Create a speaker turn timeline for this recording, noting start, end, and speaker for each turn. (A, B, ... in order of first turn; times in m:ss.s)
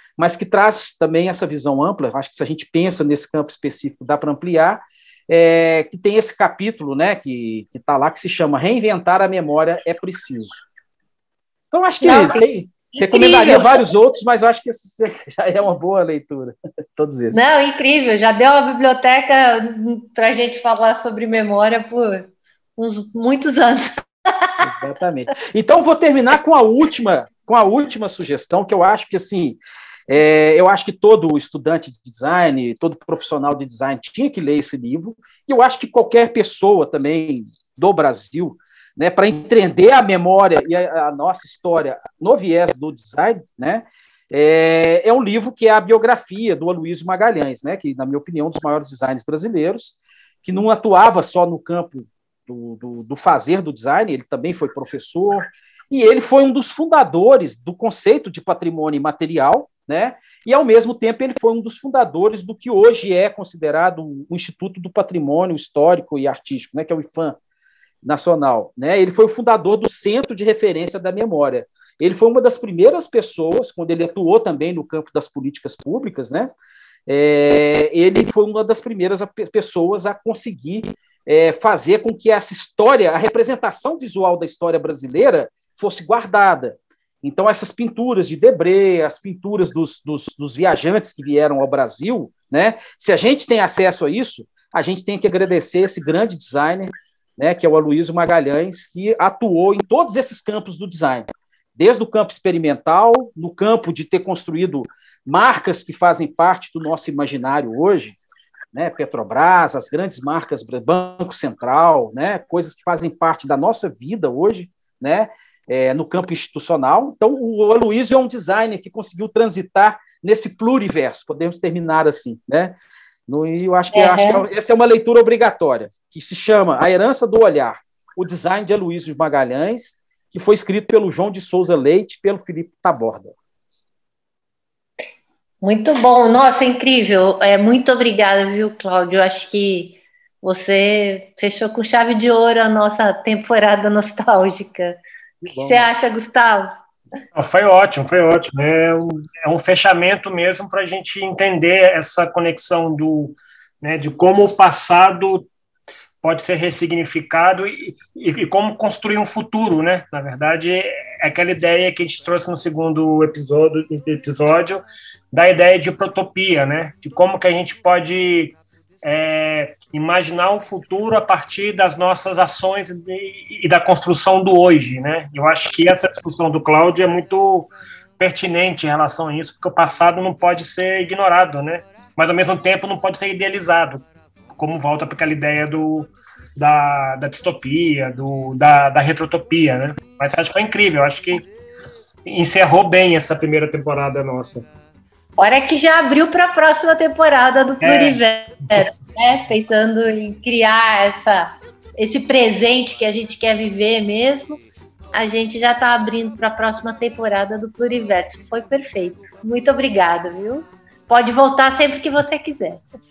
0:00.2-0:10.6 A
0:11.7-0:17.4 A
0:12.0-0:12.4 B
0:12.9-0:13.9 B
0:17.3-0:24.6 B
0:24.6-1:07.4 A
1:08.0-1:16.5 A
1:17.1-1:48.2 A
1:48.7-2:02.8 A
2:03.3-2:13.3 A
2:03.9-2:04.4 B
2:15.6-2:26.7 B
2:25.4-2:25.9 A
2:27.4-2:35.5 C
2:36.2-3:11.4 C
3:12.3-3:14.7 C
3:15.4-3:24.6 B
3:17.8-3:18.2 C
3:25.1-3:32.8 B